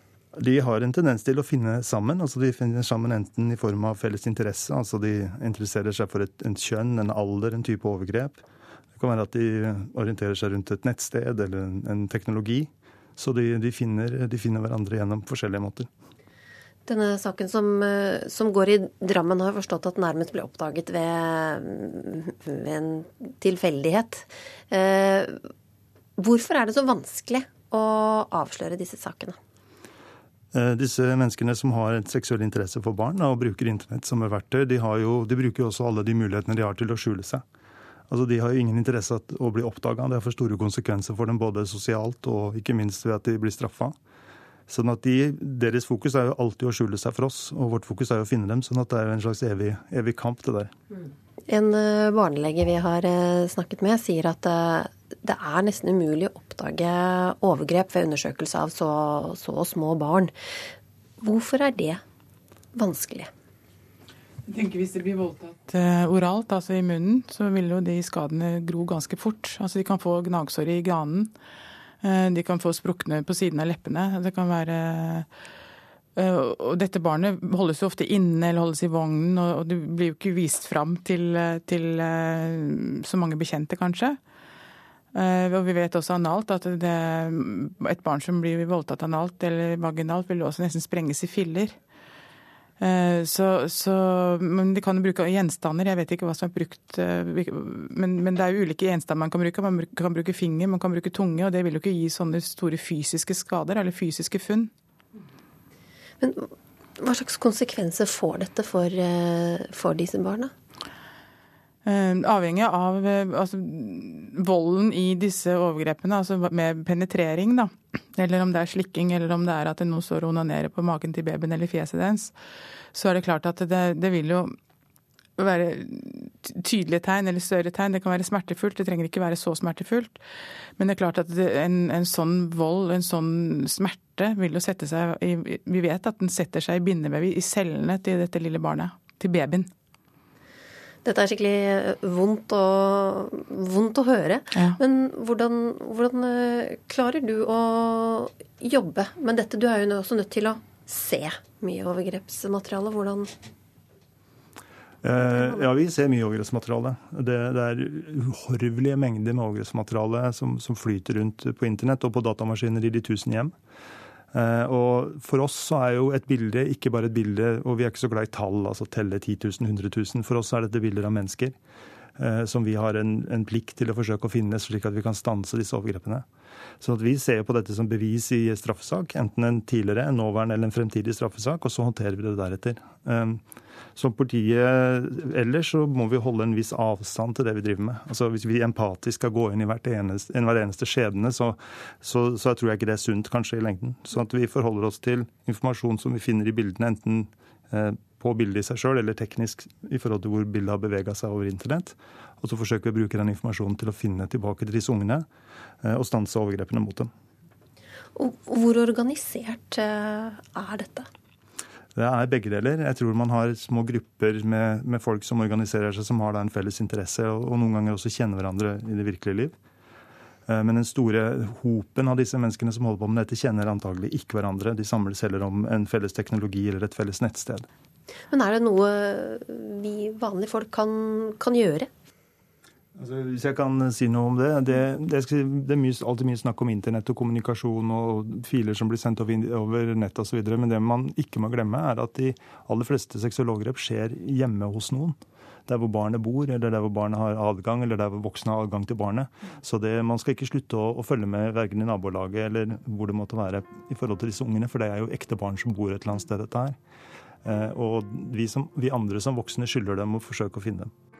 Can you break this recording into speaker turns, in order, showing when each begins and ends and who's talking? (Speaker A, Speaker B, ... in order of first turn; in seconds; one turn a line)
Speaker A: 0.4-8.4
Speaker A: 8.9-15.9
Speaker B: 16.9-25.4
Speaker B: 26.2-29.4
Speaker A: 30.5-37.4
Speaker A: 38.1-44.0
Speaker A: 44.7-50.7
Speaker B: 51.5-60.3
Speaker B: 61.2-62.0
Speaker B: 62.7-63.3
Speaker C: 64.5-71.3
Speaker C: 72.0-75.3
Speaker C: 76.2-84.2
Speaker C: 85.1-91.8
Speaker C: 92.8-104.7
Speaker B: 106.2-110.5
Speaker C: 111.9-122.3
Speaker C: 122.9-124.5
Speaker C: 125.4-130.2
Speaker C: 130.8-139.7
Speaker B: 141.0-153.3
Speaker A: 155.0-163.6
Speaker B: 155.2-155.6
Speaker A: 164.3-171.6
Speaker A: 172.2-176.3
Speaker A: 176.8-183.4
Speaker A: 183.9-205.3
Speaker A: 205.8-207.1
Speaker B: 208.2-211.1
Speaker A: 211.9-219.6
Speaker A: 220.5-227.7
Speaker B: 228.3-231.9
Speaker A: 233.0-256.8
Speaker A: 257.4-260.9